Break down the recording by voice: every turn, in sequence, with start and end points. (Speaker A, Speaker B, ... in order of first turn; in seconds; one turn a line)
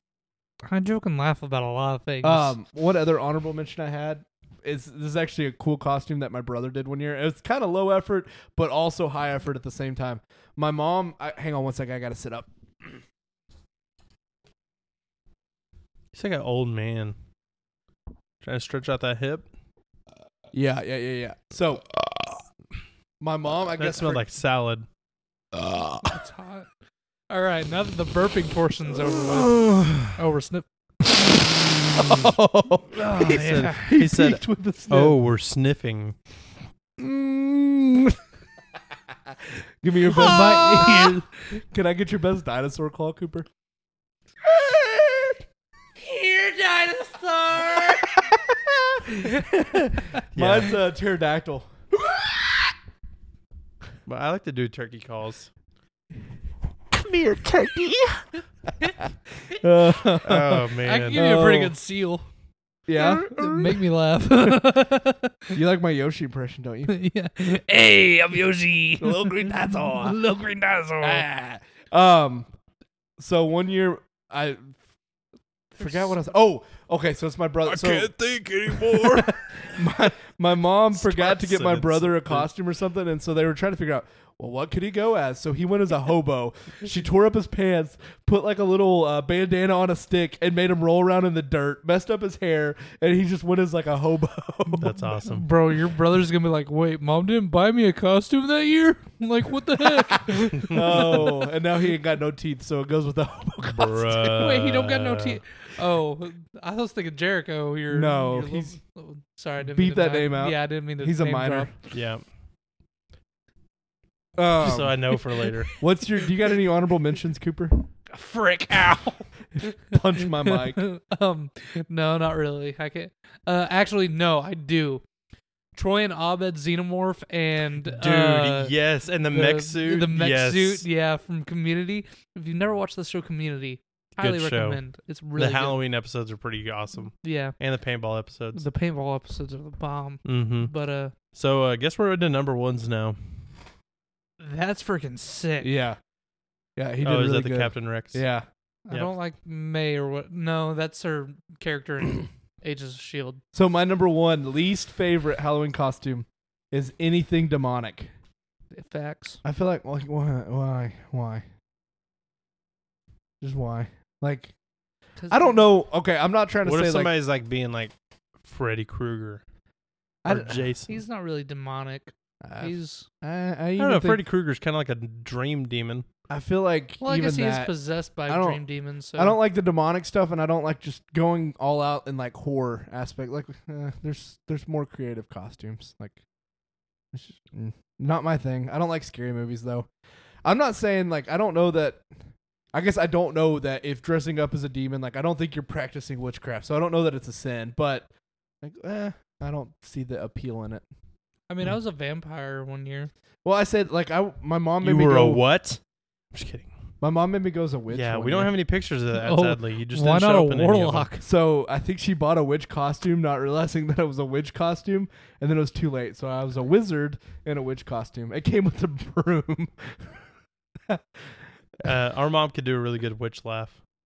Speaker A: 0.7-2.5
Speaker B: 2.2-13.0
Speaker C: 16.1-17.1
Speaker C: 18.4-19.4
Speaker B: 20.5-21.9
Speaker B: 23.2-24.2
Speaker C: 23.8-24.9
Speaker B: 25.5-26.2
Speaker A: 26.0-26.7
Speaker A: 27.3-30.6
Speaker B: 29.3-30.1
Speaker B: 31.2-35.2
Speaker A: 33.0-33.9
Speaker C: 33.0-36.1
Speaker B: 37.0-38.2
Speaker B: 39.3-43.5
Speaker A: 40.0-41.3
Speaker B: 44.4-45.4
Speaker A: 46.0-48.1
Speaker B: 47.5-52.5
Speaker A: 49.1-49.4
Speaker C: 50.4-50.8
Speaker C: 54.1-55.5
Speaker B: 57.1-57.5
Speaker B: 59.6-61.7
Speaker C: 60.2-61.2
Speaker A: 60.8-62.3
Speaker B: 62.9-63.9
Speaker A: 62.9-65.5
Speaker B: 65.5-66.9
Speaker A: 66.9-71.2
Speaker B: 69.0-70.2
Speaker B: 71.0-72.5
Speaker B: 73.2-74.8
Speaker A: 75.8-76.2
Speaker B: 75.8-78.1
Speaker C: 77.7-79.2
Speaker A: 78.2-79.2
Speaker B: 78.7-95.0
Speaker C: 80.9-82.5
Speaker A: 94.7-101.3
Speaker C: 94.8-95.5
Speaker C: 100.6-101.2
Speaker B: 100.7-104.5
Speaker C: 103.6-105.4
Speaker A: 104.4-111.7
Speaker B: 107.9-108.8
Speaker B: 109.6-111.7
Speaker C: 111.9-112.2
Speaker B: 114.4-115.1
Speaker C: 114.6-115.7
Speaker B: 115.8-117.8
Speaker A: 118.1-125.0
Speaker B: 119.8-120.8
Speaker A: 125.7-128.7
Speaker C: 127.9-130.8
Speaker A: 129.3-135.8
Speaker C: 134.2-134.8
Speaker C: 135.3-138.7
Speaker A: 137.2-137.6
Speaker A: 138.6-141.1
Speaker C: 140.2-140.7
Speaker C: 141.3-143.2
Speaker A: 144.4-145.7
Speaker B: 145.6-146.0
Speaker B: 146.8-148.4
Speaker C: 147.0-148.2
Speaker A: 148.9-153.4
Speaker B: 153.5-158.1
Speaker A: 158.7-159.4
Speaker B: 159.4-161.4
Speaker B: 163.4-164.5
Speaker A: 165.2-165.7
Speaker B: 165.3-167.1
Speaker C: 166.7-167.9
Speaker C: 168.4-169.4
Speaker B: 170.2-170.7
Speaker C: 170.3-171.0
Speaker A: 170.9-173.1
Speaker B: 172.4-174.2
Speaker C: 173.8-176.1
Speaker B: 176.3-177.7
Speaker A: 177.0-179.4
Speaker B: 178.3-178.6
Speaker B: 179.2-186.2
Speaker B: 187.1-189.9
Speaker B: 190.4-192.0
Speaker B: 192.7-198.1
Speaker B: 198.6-200.8
Speaker A: 201.5-203.1
Speaker B: 203.4-205.4
Speaker C: 204.8-205.8
Speaker C: 206.3-206.7
Speaker B: 207.0-208.5
Speaker C: 207.9-211.1
Speaker A: 209.2-211.2
Speaker B: 211.2-220.2
Speaker B: 220.9-221.3
Speaker C: 221.8-223.8